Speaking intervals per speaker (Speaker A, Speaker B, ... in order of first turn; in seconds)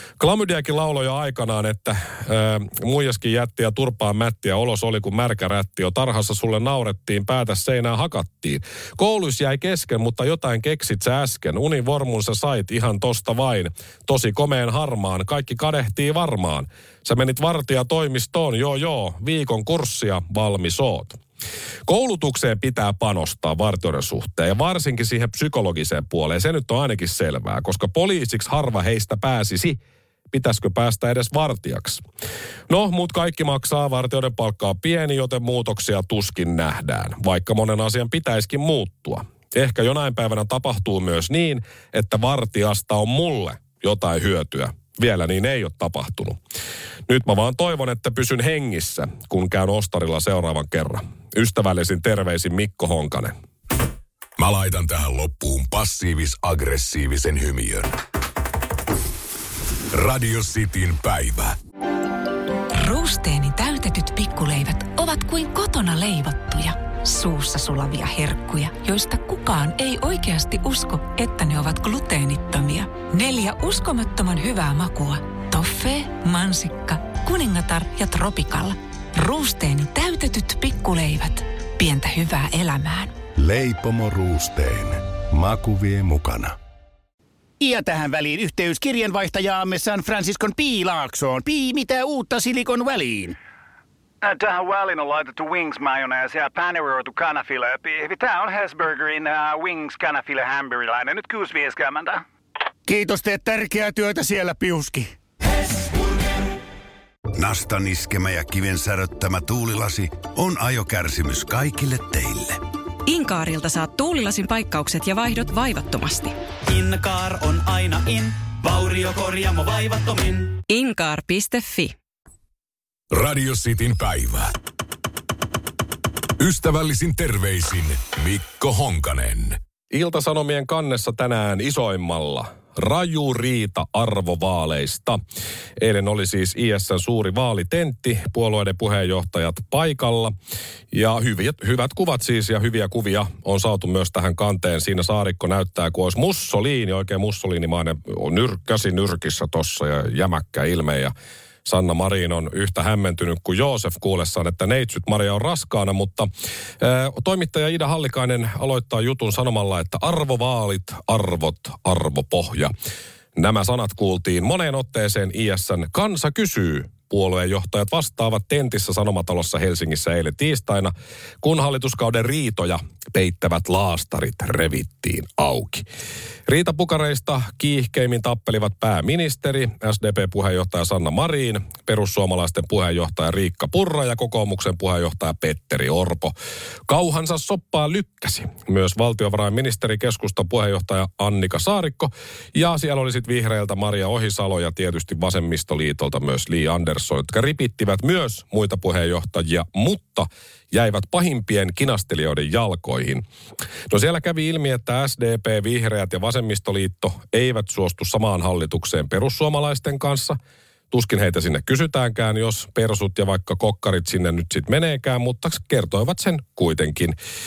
Speaker A: 0.2-21.2, 21.9-29.8, 30.3-32.0, 32.7-46.4, 47.1-53.4, 129.9-135.2, 135.8-140.3, 140.9-151.1, 151.7-162.7, 163.3-175.9, 176.5-186.3, 186.9-203.2, 203.9-210.4, 210.9-217.2
Speaker B: 54.4-57.9, 59.9-61.6, 123.1-124.5, 126.4-129.6
Speaker C: 62.7-83.1
Speaker D: 83.4-86.6
Speaker E: 87.6-93.4, 102.9-105.1
Speaker F: 94.2-102.2
Speaker G: 107.3-112.6
Speaker H: 113.1-116.4, 120.7-122.0
Speaker I: 116.7-120.6